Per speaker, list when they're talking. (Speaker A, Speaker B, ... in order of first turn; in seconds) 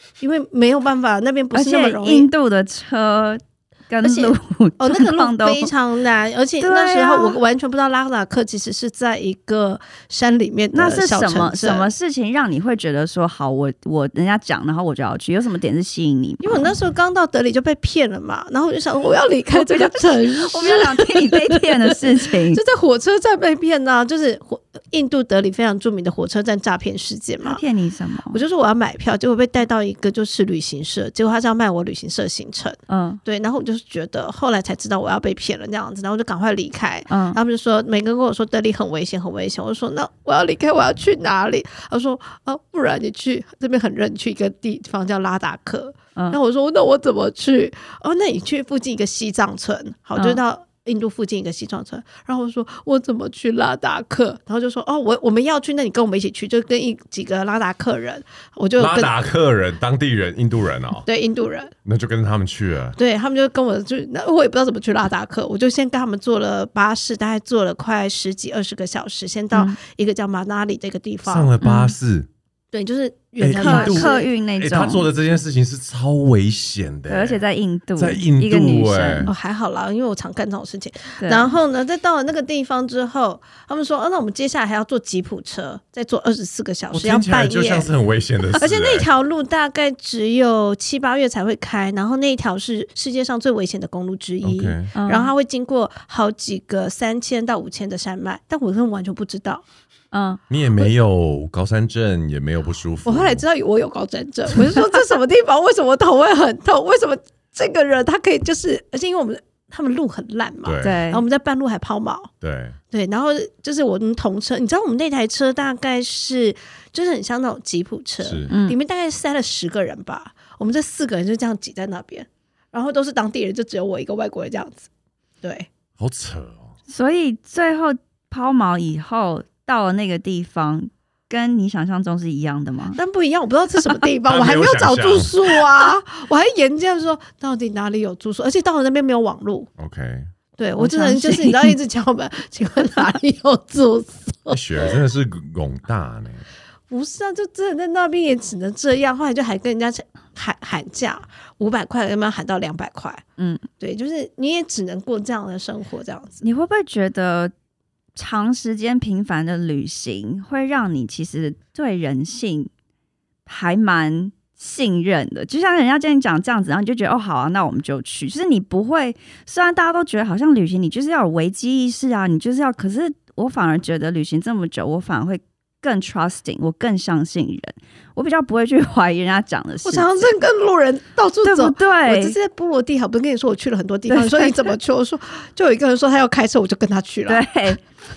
Speaker A: 0.2-2.3, 4.0-11.9, 16.4-27.6, 28.3-59.1, 61.1-61.7, 63.0-71.5, 72.7-74.3, 79.3-87.9, 88.5-99.6, 103.0-112.3, 112.9-124.9, 125.4-125.7, 132.9-139.7, 140.6-144.8, 146.9-153.2, 153.8-156.4, 179.8-187.7
Speaker B: 1.5-5.7, 6.6-7.4, 10.7-16.7, 19.5-22.6, 27.4-28.4, 32.9-33.2, 37.1-37.4, 71.6-72.0, 73.6-75.1, 77.1-79.3, 81.2-81.5, 95.0-95.3, 100.1-100.4, 110.8-111.2, 118.5-118.8, 126.9-133.0, 140.8-141.8, 153.4-153.7, 156.4-157.5, 158.2-162.7, 163.5-180.3, 181.4-182.4, 184.1-184.7, 187.3-187.8
Speaker C: 58.8-61.1, 61.9-63.0, 71.3-72.3, 73.4-77.4, 78.0-79.3, 86.9-89.1, 94.4-94.9, 100.5-103.5, 110.6-111.0, 112.4-112.8, 118.2-118.5, 126.0-126.7, 134.3-135.7, 139.8-140.3, 144.5-146.4